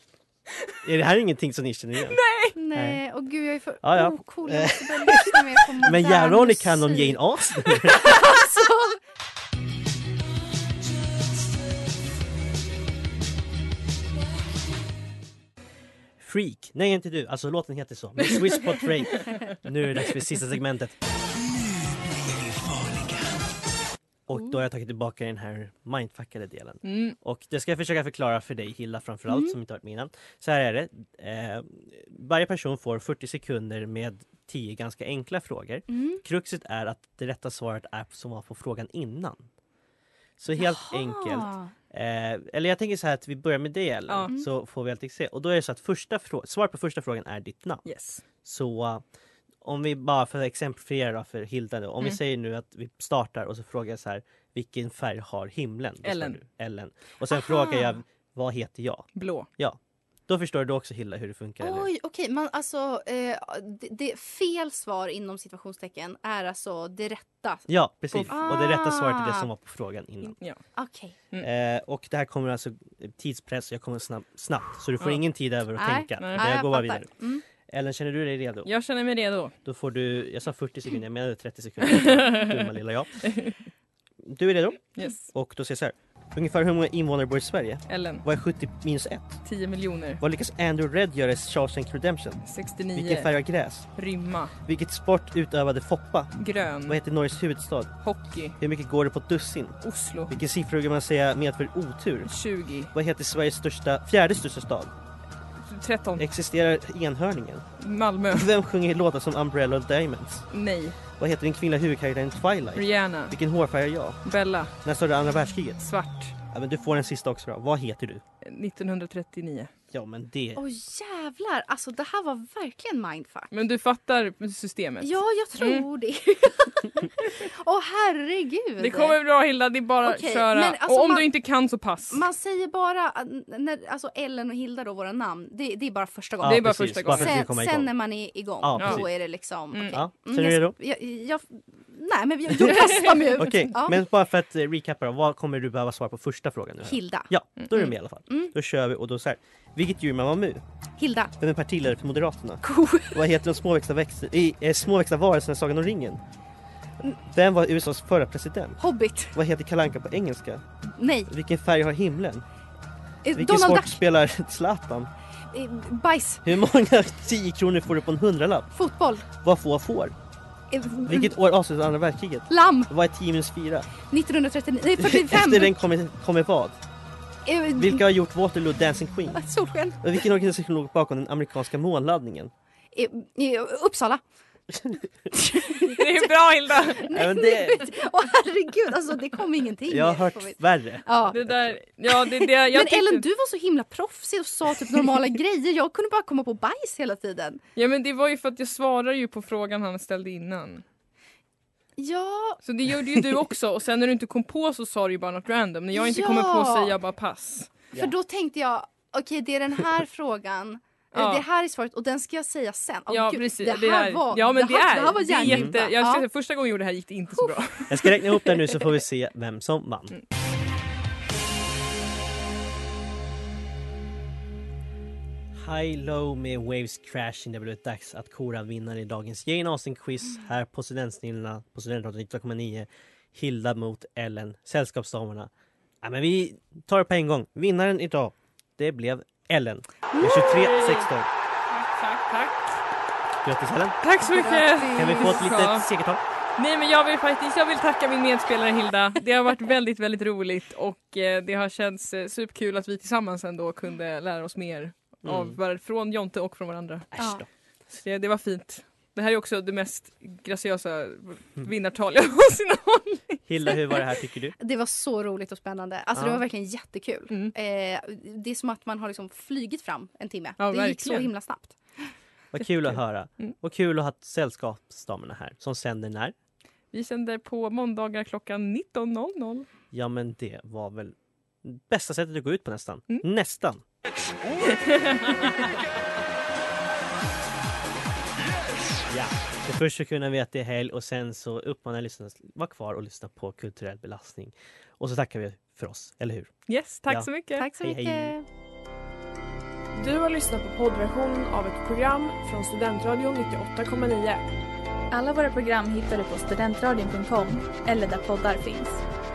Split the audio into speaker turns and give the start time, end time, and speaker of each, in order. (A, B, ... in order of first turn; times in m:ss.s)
0:00.8-0:02.2 A
0:02.0-0:02.6 B
0:02.6-0:09.0 C
0:02.7-0:03.0 A
0:03.8-0:08.1 A
0:16.2-0:21.0 A
0:19.1-0:19.4 B
0:22.7-0:23.2 A
0:24.3-0:39.5 A
0:26.8-0:27.2 B
0:29.3-0:29.6 C
0:35.9-0:36.2 C
0:40.4-0:47.8 A
0:40.6-0:41.7 C
0:47.8-0:48.2 B
0:48.4-0:49.0 A
0:49.6-1:01.9 A
0:56.0-0:56.4 B
0:57.3-0:58.0 C
0:59.2-0:59.5 B
1:01.6-1:09.5 C
1:07.7-1:10.4 A
1:10.3-1:10.6 B
1:10.8-1:11.2 C
1:11.4-1:18.7 A
1:15.8-1:17.4 C
1:16.2-1:16.5 B
1:18.7-1:19.5 B
1:19.6-1:23.3 A
1:21.9-1:22.6 B
1:23.2-1:23.6 B
1:24.2-1:29.4 A
1:25.0-1:25.3 B
1:27.9-1:28.2 B
1:29.4-1:30.2 B
1:30.2-1:32.4 A
1:32.4-1:33.3 B
1:32.9-1:33.9 A
1:34.0-1:34.5 B
1:34.6-1:36.3 A
1:36.4-1:37.0 B
1:36.9-1:37.9 A
1:38.0-1:38.6 B
1:38.6-1:42.3 A
1:39.8-1:40.4 B
1:42.3-1:42.9 B
1:42.9-1:44.9 A
1:45.7-1:46.2 B
1:46.2-1:47.7 A
1:47.8-1:48.5 B
1:48.3-1:50.5 A
1:50.5-1:51.0 B
1:51.2-1:54.2 A
1:52.8-1:53.4 B
1:54.2-1:54.7 B
1:54.8-1:55.9 A
1:55.8-1:56.3 B
1:56.5-1:58.2 A
1:58.4-1:59.7 B
1:59.9-2:00.6 A
2:00.6-2:03.5 C
2:03.5-2:05.9 B
2:05.0-2:09.2 C
2:08.8-2:12.2 B
2:10.0-2:11.3 C
2:12.1-2:24.0 C
2:16.4-2:17.9 A
2:16.4-2:17.5 B
2:18.6-2:19.1 A
2:18.8-2:19.0 B
2:19.9-2:20.8 A
2:22.5-2:30.6 A
2:23.0-2:23.3 B
2:26.9-2:28.5 C
2:31.0-2:31.3 C
2:31.4-2:36.2 A
2:32.6-2:33.2 C
2:37.0-2:38.8 A
2:38.8-2:39.4 C
2:39.3-2:40.6 A
2:41.0-2:41.3 C
2:41.3-2:42.5 A
2:43.2-2:44.0 C
2:43.3-2:45.1 A
2:45.5-2:46.4 C
2:46.4-2:48.7 A
2:48.7-2:49.3 C
2:49.4-2:50.2 A
2:50.7-2:51.3 C
2:51.1-2:53.9 A
2:52.5-2:52.9 C
2:54.0-2:55.8 C
2:55.0-2:56.8 A
2:57.4-2:58.0 C
2:57.8-2:59.4 A
2:59.3-3:00.2 C
3:00.0-3:02.5 A
3:02.9-3:04.2 C
3:05.3-3:11.4 C
3:05.7-3:07.2 B
3:07.1-3:07.9 A
3:09.9-3:11.8 A
3:11.3-3:13.2 B
3:12.1-3:17.6 C
3:17.8-3:20.8 B
3:22.0-3:23.4 C
3:22.6-3:27.8 B
3:25.9-3:26.9 C
3:28.0-3:36.2 C
3:31.1-3:31.4 B
3:33.1-3:38.2 B
3:35.4-3:35.8 A
3:37.9-3:40.2 A
3:45.5-3:55.5 A
3:56.0-4:01.3 A
4:00.1-4:00.6 C
4:00.4-4:01.1 B
4:01.7-4:02.8 B
4:03.4-4:04.0 A
4:04.0-4:05.9 B
4:04.2-4:05.4 C
4:04.9-4:06.2 A
4:06.6-4:17.2 B
4:15.2-4:15.6 A
4:17.1-4:17.5 A
4:17.2-4:17.4 C
4:18.0-4:23.4 B
4:23.5-4:24.6 A
4:24.6-4:32.1 C
4:26.2-4:26.4 A
4:30.6-4:31.3 B
4:32.5-4:36.4 A
4:36.9-4:39.7 B
4:39.9-4:43.8 A
4:44.6-4:45.8 B
4:49.1-4:56.5 A
4:56.7-4:57.7 B
4:57.1-4:58.3 A
4:57.6-4:58.5 C
5:00.0-5:04.4 D
5:05.1-5:09.0 E